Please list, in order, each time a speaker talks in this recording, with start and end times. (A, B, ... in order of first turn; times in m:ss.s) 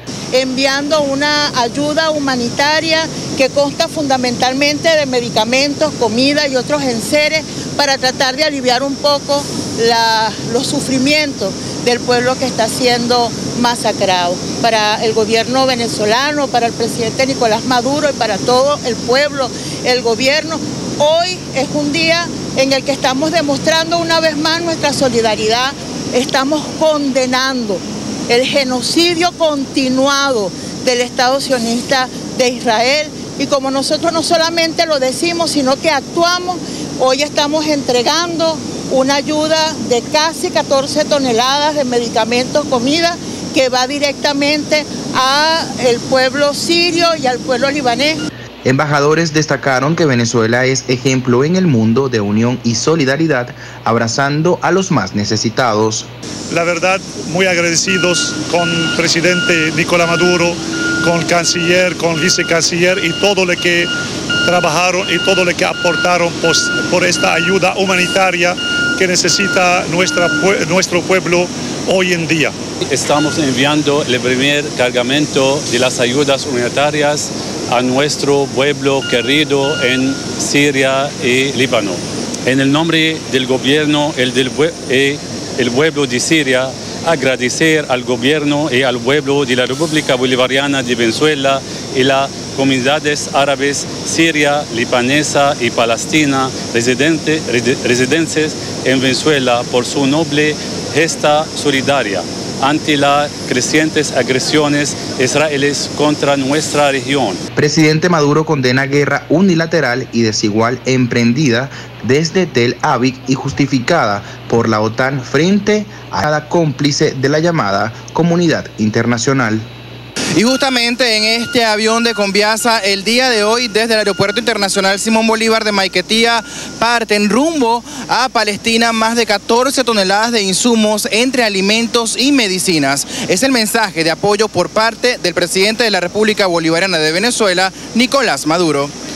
0:00.3-0:48.2 A
0:48.6-0:56.1 B
0:56.5-1:03.9 C
1:04.5-1:12.6 C
1:12.9-1:47.4 D
1:47.6-1:59.7 B
2:00.4-2:18.9 E